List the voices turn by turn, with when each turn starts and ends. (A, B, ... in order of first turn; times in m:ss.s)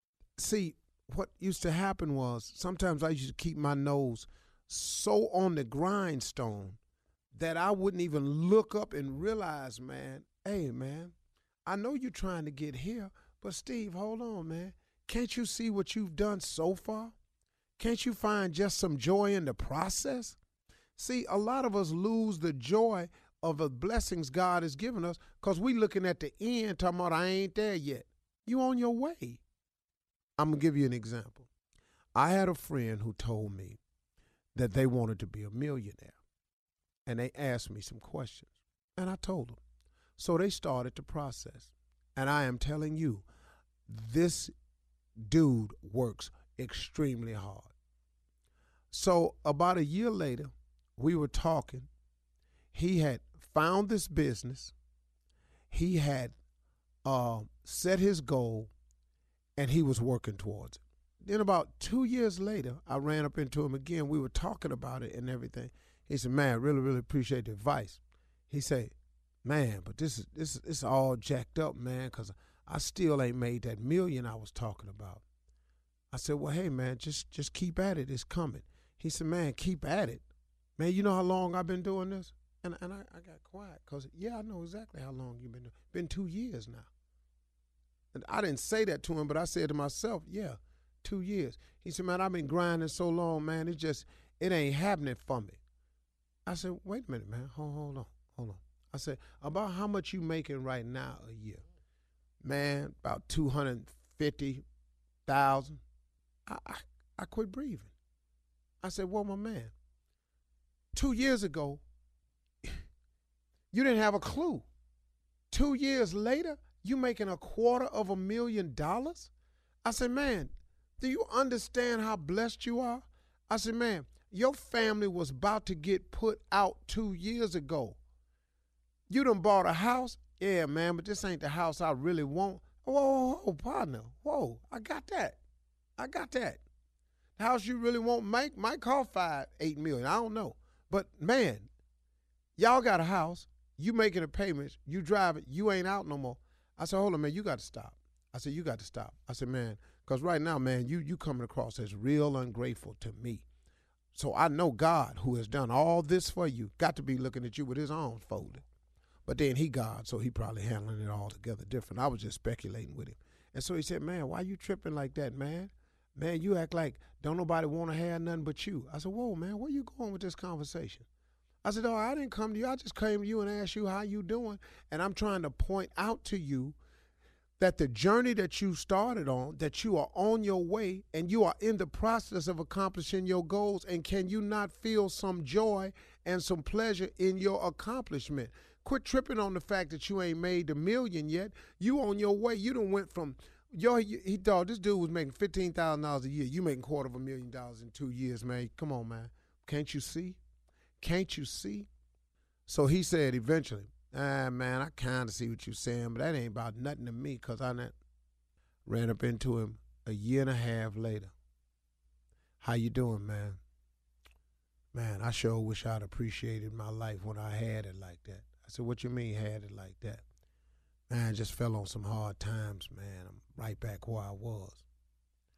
0:00.4-0:06.8 A
0:07.3-0:11.1 A
0:11.6-0:17.1 A
0:17.8-0:20.4 A
0:21.0-0:29.4 A
0:30.4-0:31.5 A
0:32.1-0:33.8 A
0:34.5-0:36.2 A
0:37.0-0:39.6 A
0:40.2-0:43.2 A
0:43.9-0:44.5 A
0:45.2-0:47.7 A
0:48.9-0:51.9 A
0:52.7-0:54.7 A
0:55.7-0:56.4 A
0:57.0-0:58.7 A
0:59.6-1:15.2 A
1:16.1-1:20.2 A
1:20.8-1:26.9 A
1:28.1-1:35.6 A
1:36.4-1:41.6 A
1:42.4-1:44.6 A
1:45.2-1:45.8 A
1:46.5-1:47.9 A
1:48.8-1:49.7 A
1:50.9-1:51.8 A
1:53.7-1:54.7 A
1:55.5-1:59.3 A
1:59.8-2:08.0 A
2:09.1-2:15.4 A
2:16.0-2:16.6 A
2:17.4-2:21.7 A
2:22.6-2:33.5 A
2:34.1-2:38.6 A
2:39.2-2:51.0 A
2:51.6-2:56.8 A
2:57.6-3:20.4 A
3:21.0-3:21.9 A
3:22.7-3:28.0 A
3:28.8-3:31.3 A
3:32.6-3:33.6 A
3:34.9-3:40.2 A
3:41.1-3:44.8 A